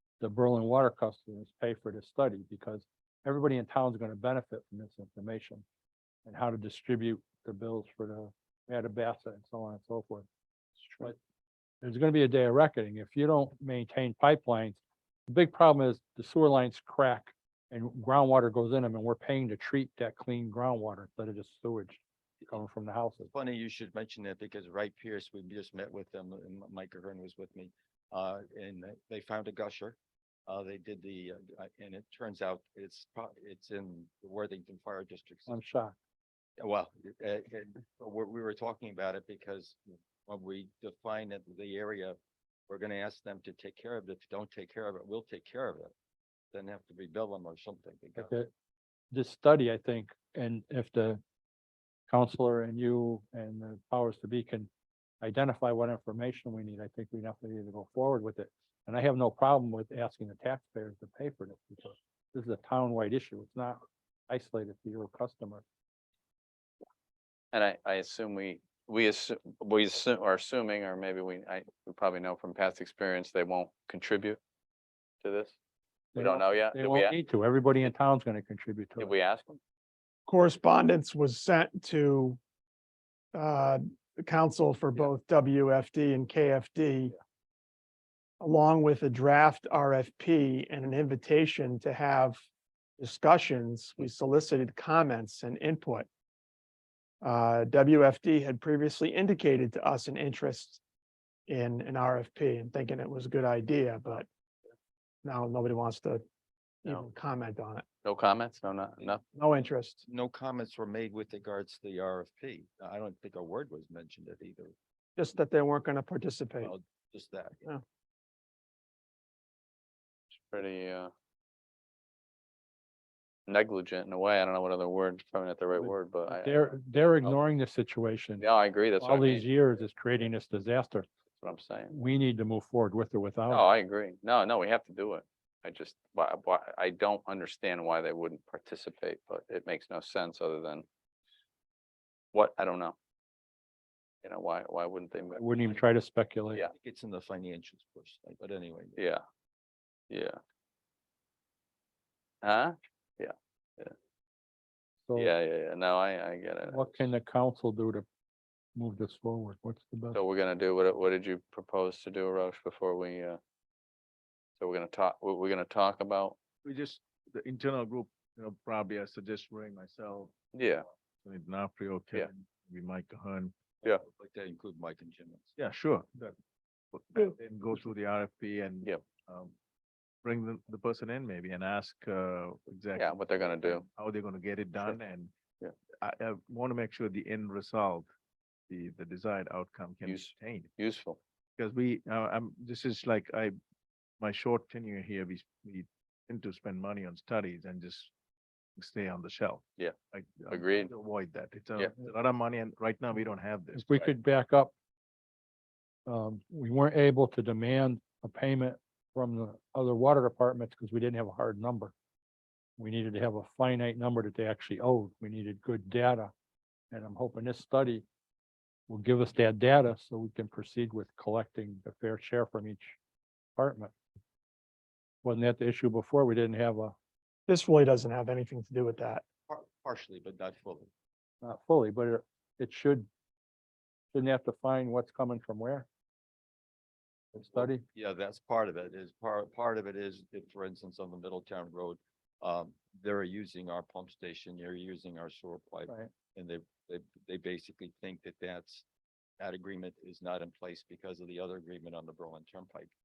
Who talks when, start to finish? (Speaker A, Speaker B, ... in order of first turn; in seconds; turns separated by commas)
Speaker A: 0.2-5.6, Speaker A: 6.2-10.3, Speaker B: 10.8-11.1, Speaker A: 11.8-23.3, Speaker C: 23.2-35.6, Speaker A: 35.5-36.0, Speaker C: 36.6-42.2, Speaker C: 42.7-45.9, Speaker C: 46.5-48.4, Speaker A: 48.2-48.5, Speaker A: 49.1-51.2, Speaker A: 52.1-54.7, Speaker A: 55.2-65.6, Speaker B: 67.5-74.4, Speaker B: 75.2-75.6, Speaker A: 76.1-79.1, Speaker B: 76.2-77.2, Speaker B: 79.0-79.6, Speaker D: 80.3-82.4, Speaker D: 83.3-87.2, Speaker D: 88.4-92.4, Speaker D: 93.0-96.1, Speaker D: 97.2-100.8, Speaker D: 101.5-104.3, Speaker D: 105.2-106.2, Speaker D: 106.8-107.8, Speaker B: 108.0-109.2, Speaker D: 109.3-110.0, Speaker C: 110.1-114.8, Speaker D: 115.2-116.7, Speaker C: 116.6-117.7, Speaker B: 120.5-121.1, Speaker B: 123.5-126.6, Speaker A: 125.8-128.4, Speaker B: 128.4-129.5, Speaker A: 129.0-131.1, Speaker B: 131.4-131.9, Speaker A: 131.9-133.7, Speaker B: 133.5-140.9, Speaker B: 142.3-143.0, Speaker B: 144.2-145.8, Speaker A: 145.4-146.6, Speaker C: 146.6-149.0, Speaker B: 149.0-149.2, Speaker B: 150.1-150.4, Speaker B: 152.4-153.9, Speaker A: 155.1-155.3, Speaker B: 155.2-157.1, Speaker A: 156.7-158.1, Speaker A: 158.8-160.2, Speaker B: 160.1-163.4, Speaker B: 164.6-166.4, Speaker E: 166.6-170.3, Speaker B: 170.5-170.8, Speaker E: 171.2-173.5, Speaker C: 173.8-175.6, Speaker E: 175.6-176.3, Speaker E: 176.9-179.6, Speaker E: 180.2-185.3, Speaker B: 183.0-183.8, Speaker E: 186.0-188.1, Speaker E: 188.7-190.7, Speaker B: 190.1-191.2, Speaker E: 191.6-193.6, Speaker E: 194.2-198.1, Speaker E: 198.8-204.1, Speaker B: 200.5-200.9, Speaker A: 203.7-204.7, Speaker A: 206.1-211.9, Speaker A: 212.8-216.3, Speaker A: 216.9-218.1, Speaker A: 218.9-223.0, Speaker A: 223.6-223.9, Speaker A: 225.2-226.9, Speaker D: 227.5-229.2, Speaker C: 229.5-230.9, Speaker A: 231.4-233.1, Speaker A: 234.1-235.9, Speaker A: 237.3-237.8, Speaker C: 237.4-248.8, Speaker C: 249.4-252.9